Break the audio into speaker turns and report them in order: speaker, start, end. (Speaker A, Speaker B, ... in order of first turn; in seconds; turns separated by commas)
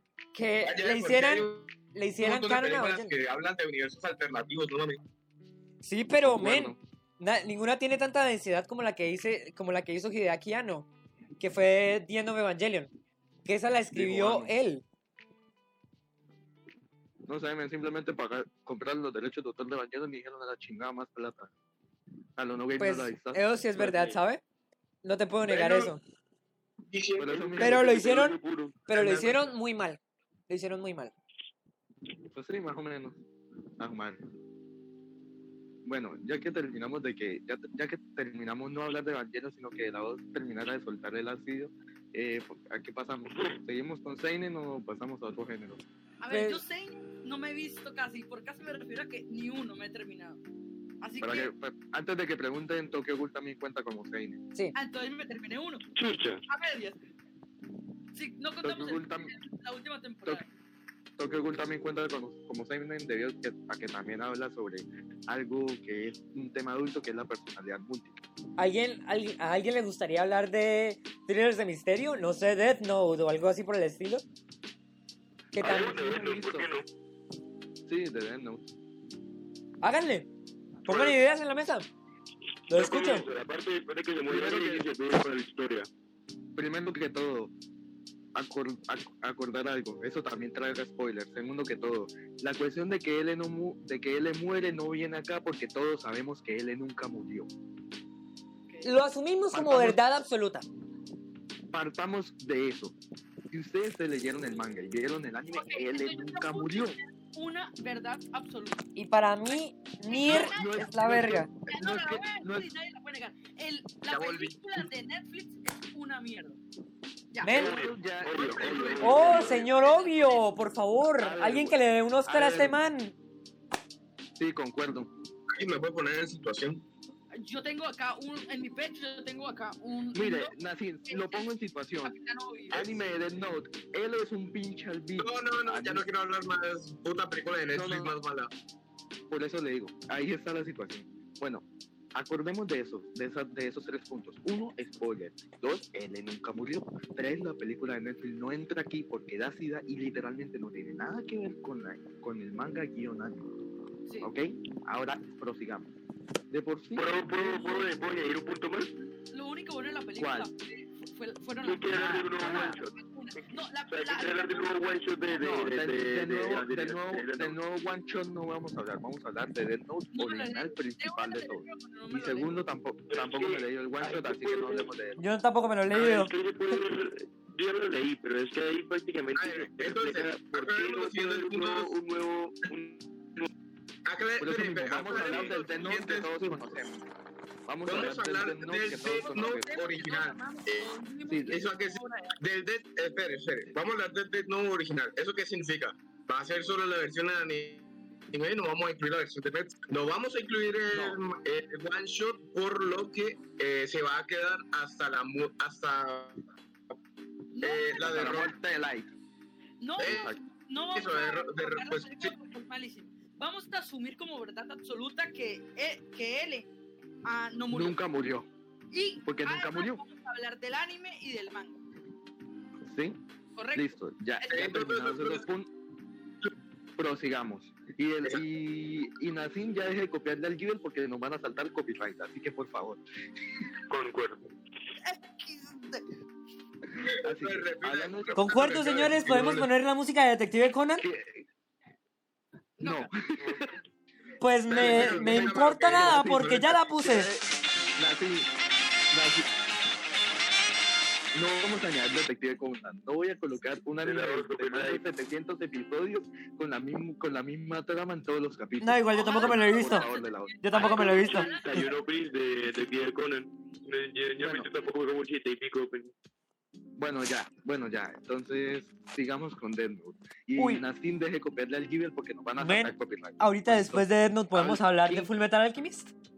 Speaker A: 0.3-3.1, Speaker B: 0.7-5.0, Speaker A: 5.8-10.9, Speaker C: 6.2-6.8, Speaker A: 11.4-12.9, Speaker A: 13.5-14.8, Speaker C: 13.9-14.6, Speaker C: 17.3-21.5, Speaker C: 22.4-24.2, Speaker A: 22.8-24.4, Speaker A: 25.0-26.0, Speaker B: 25.5-25.9, Speaker B: 26.9-27.3, Speaker C: 27.2-28.2, Speaker D: 27.3-28.9, Speaker A: 27.6-31.1, Speaker B: 28.9-29.5, Speaker C: 32.3-33.2, Speaker C: 33.8-34.2, Speaker C: 35.9-45.8, Speaker D: 43.3-43.6, Speaker E: 46.2-50.4, Speaker A: 46.3-46.6, Speaker E: 51.0-51.5, Speaker C: 51.2-54.4, Speaker E: 54.8-55.9, Speaker D: 56.0-56.4, Speaker E: 56.5-57.0, Speaker E: 58.1-60.5, Speaker C: 58.6-59.3, Speaker C: 61.2-68.2, Speaker A: 68.6-74.2, Speaker A: 75.5-76.0, Speaker D: 75.6-76.9, Speaker C: 75.6-76.7, Speaker C: 77.9-78.7, Speaker A: 79.8-80.3, Speaker A: 80.8-81.9, Speaker B: 80.9-81.2, Speaker D: 82.7-85.9, Speaker A: 82.7-83.3, Speaker C: 84.3-84.9, Speaker C: 86.5-87.5, Speaker C: 88.3-97.5, Speaker A: 98.8-100.7, Speaker C: 99.5-100.0, Speaker C: 101.7-103.0, Speaker C: 103.5-107.0, Speaker E: 105.5-108.9, Speaker A: 109.0-111.5, Speaker E: 110.1-116.6, Speaker C: 110.2-112.7, Speaker B: 114.1-114.6, Speaker E: 117.3-117.8, Speaker A: 117.4-117.8, Speaker D: 117.5-119.6, Speaker C: 117.5-119.7, Speaker E: 118.4-120.5, Speaker A: 119.0-123.1, Speaker C: 121.1-122.8, Speaker C: 124.4-125.1, Speaker B: 125.5-126.9, Speaker E: 127.4-130.5, Speaker C: 130.1-132.2, Speaker E: 131.1-131.5, Speaker E: 132.0-133.0, Speaker C: 132.7-136.1, Speaker B: 135.2-138.5, Speaker C: 137.7-138.1, Speaker C: 139.3-153.5, Speaker C: 154.2-155.9, Speaker C: 156.5-157.8, Speaker D: 156.9-158.9, Speaker E: 157.4-157.9, Speaker E: 159.3-165.7, Speaker C: 160.2-160.5, Speaker D: 161.6-167.6, Speaker C: 161.9-162.5, Speaker C: 165.4-175.2, Speaker E: 170.1-172.6, Speaker D: 173.1-174.9, Speaker A: 175.2-176.3, Speaker D: 175.9-183.5, Speaker B: 179.3-181.9, Speaker B: 184.1-186.8, Speaker C: 184.4-187.0, Speaker D: 185.1-185.5, Speaker C: 187.7-189.7, Speaker B: 187.8-190.9, Speaker E: 189.2-192.4, Speaker C: 191.3-191.6, Speaker B: 191.5-206.4, Speaker C: 200.9-201.2, Speaker E: 207.5-208.5, Speaker B: 207.6-208.5, Speaker C: 208.0-209.1, Speaker E: 209.8-216.7, Speaker B: 210.0-210.3, Speaker C: 210.0-210.4, Speaker B: 210.9-212.3, Speaker E: 217.2-218.0, Speaker C: 217.7-218.5, Speaker E: 218.9-221.8, Speaker C: 219.3-220.0, Speaker C: 222.8-223.2, Speaker E: 223.6-223.9, Speaker C: 223.7-225.7, Speaker B: 224.5-225.5, Speaker C: 227.0-233.0, Speaker D: 233.9-234.5, Speaker E: 235.0-236.1, Speaker B: 237.0-239.7, Speaker C: 237.0-239.7, Speaker A: 238.3-241.1, Speaker C: 241.0-241.5, Speaker E: 242.8-243.1, Speaker C: 242.8-243.7, Speaker A: 244.4-247.3, Speaker B: 244.7-246.8, Speaker C: 244.8-248.5, Speaker C: 249.1-249.5, Speaker C: 251.3-261.1, Speaker D: 254.0-255.0, Speaker A: 258.8-260.1, Speaker E: 259.1-262.2, Speaker A: 260.6-261.9, Speaker D: 260.8-266.1, Speaker C: 264.4-264.7, Speaker C: 267.0-275.3, Speaker A: 270.6-270.9, Speaker A: 272.6-276.1